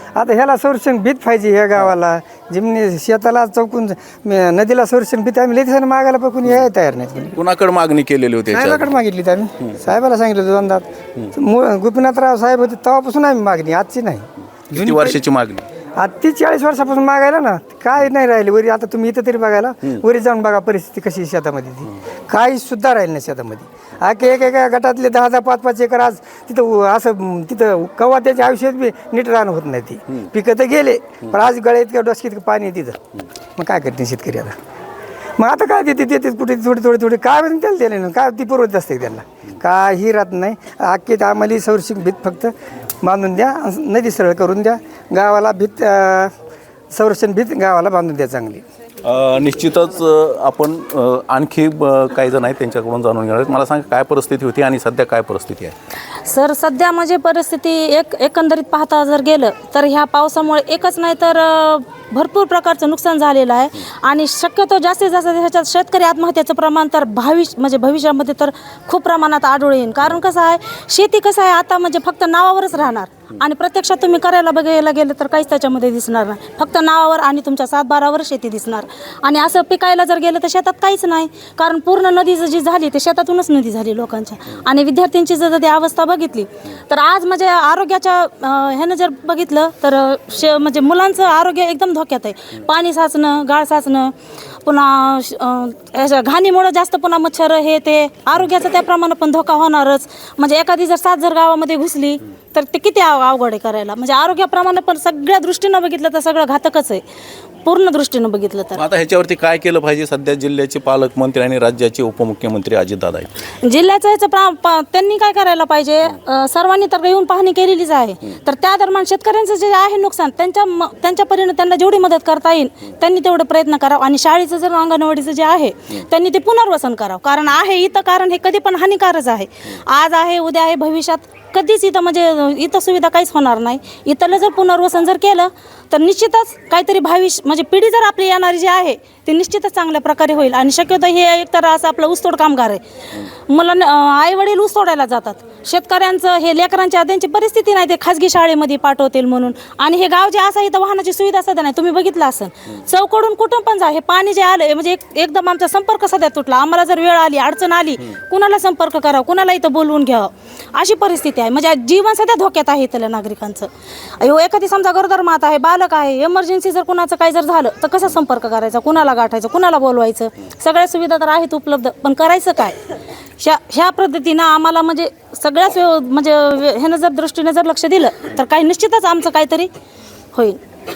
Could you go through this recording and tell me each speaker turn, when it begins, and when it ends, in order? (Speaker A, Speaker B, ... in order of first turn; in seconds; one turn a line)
Speaker A: 0.2-7.3
Speaker B: 7.3-8.9
Speaker A: 8.5-15.2
Speaker B: 14.7-15.6
Speaker A: 16.0-33.0
Speaker A: 33.6-34.5
Speaker A: 35.4-42.5
Speaker A: 43.0-46.3
Speaker A: 46.9-48.6
Speaker B: 49.0-55.8
Speaker C: 56.3-94.1
Speaker C: 94.6-107.0
Speaker C: 107.6-108.8
Speaker B: 108.8-113.3
Speaker C: 113.6-163.7
Speaker C: 164.2-172.8
Speaker C: 173.4-179.7